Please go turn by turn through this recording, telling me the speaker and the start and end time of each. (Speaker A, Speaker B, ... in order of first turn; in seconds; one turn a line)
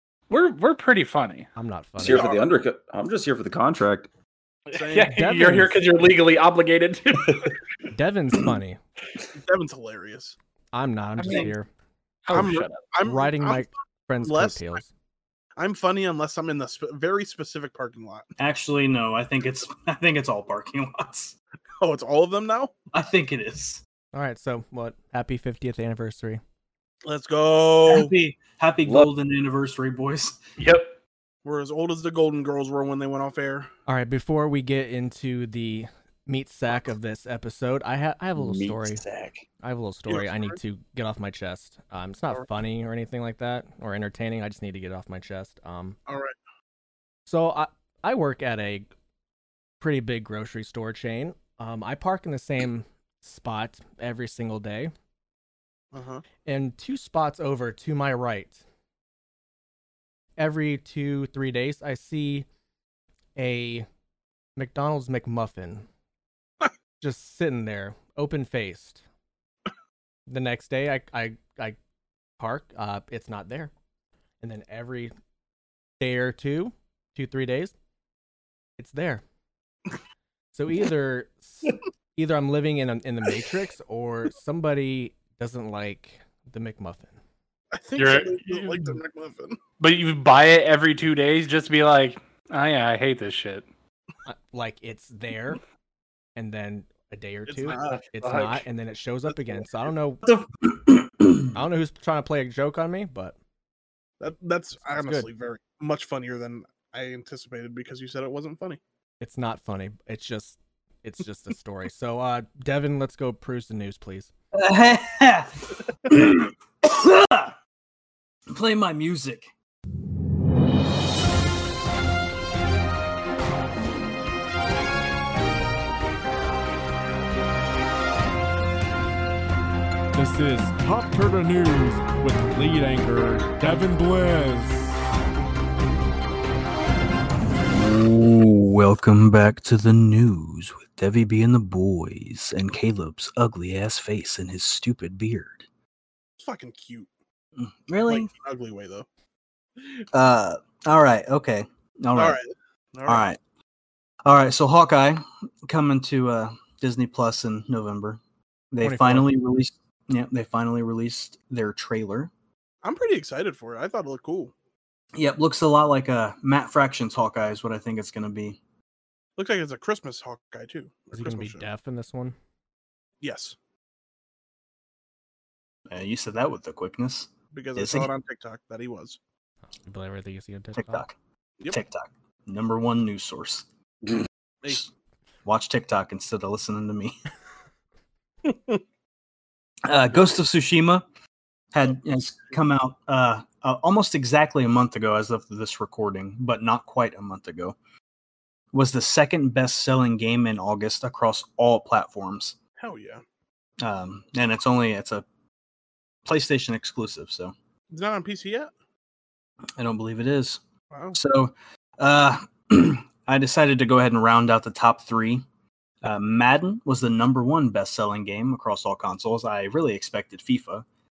Speaker A: 0.3-1.5
Speaker B: 1.6-2.3
Speaker C: 2.0-4.1
Speaker D: 2.1-2.5
Speaker D: 4.7-5.2
Speaker A: 4.7-7.5
Speaker B: 5.1-5.8
Speaker B: 7.9-8.8
Speaker D: 9.3-10.3
Speaker B: 10.7-11.7
Speaker A: 11.2-11.5
Speaker A: 12.2-12.8
Speaker D: 12.3-13.7
Speaker B: 13.0-14.9
Speaker D: 14.2-14.8
Speaker D: 15.6-18.2
Speaker E: 18.4-21.4
Speaker D: 21.8-22.7
Speaker E: 22.9-23.8
Speaker B: 24.1-26.4
Speaker D: 27.0-28.1
Speaker E: 27.8-30.4
Speaker A: 30.6-30.9
Speaker D: 31.4-33.7
Speaker B: 33.9-39.0
Speaker C: 38.4-39.4
Speaker B: 39.6-46.0
Speaker D: 40.1-40.6
Speaker D: 46.1-46.4
Speaker B: 47.3-48.9
Speaker B: 49.8-54.9
Speaker D: 55.9-56.2
Speaker B: 56.5-58.6
Speaker B: 60.4-62.5
Speaker B: 63.4-63.9
Speaker B: 64.6-65.8
Speaker B: 67.0-69.0
Speaker B: 70.3-71.8
Speaker B: 72.4-73.7
Speaker B: 74.4-75.1
Speaker B: 76.0-77.7
Speaker B: 78.8-79.2
Speaker B: 80.5-87.2
Speaker D: 87.7-89.6
Speaker A: 88.0-88.9
Speaker A: 89.8-93.7
Speaker B: 94.2-95.6
Speaker B: 96.3-100.2
Speaker D: 97.5-98.0
Speaker A: 97.9-98.6
Speaker B: 101.5-103.3
Speaker D: 104.2-108.8
Speaker B: 104.8-105.3
Speaker B: 109.2-114.3
Speaker E: 114.5-117.5
Speaker E: 118.5-119.5
Speaker F: 130.2-134.8
Speaker E: 137.6-145.7
Speaker D: 146.4-147.1
Speaker E: 147.6-148.3
Speaker D: 148.0-149.1
Speaker E: 150.1-152.4
Speaker D: 152.1-153.3
Speaker E: 153.1-153.4
Speaker E: 154.2-158.2
Speaker E: 158.7-162.3
Speaker B: 158.8-159.3
Speaker D: 162.8-164.5
Speaker E: 165.2-168.6
Speaker D: 169.4-171.7
Speaker B: 171.1-172.3
Speaker D: 173.2-173.6
Speaker E: 175.9-178.1
Speaker D: 177.5-179.2
Speaker B: 179.8-181.1
Speaker E: 180.8-181.1
Speaker E: 181.7-183.6
Speaker E: 185.4-187.2
Speaker D: 188.4-188.8
Speaker E: 189.8-191.0
Speaker E: 191.7-197.7
Speaker E: 198.7-202.6
Speaker D: 202.8-203.2
Speaker E: 203.8-205.2
Speaker E: 206.2-207.5
Speaker D: 207.9-208.7
Speaker E: 209.8-210.6
Speaker D: 210.9-211.2
Speaker E: 211.1-215.4
Speaker E: 216.0-220.8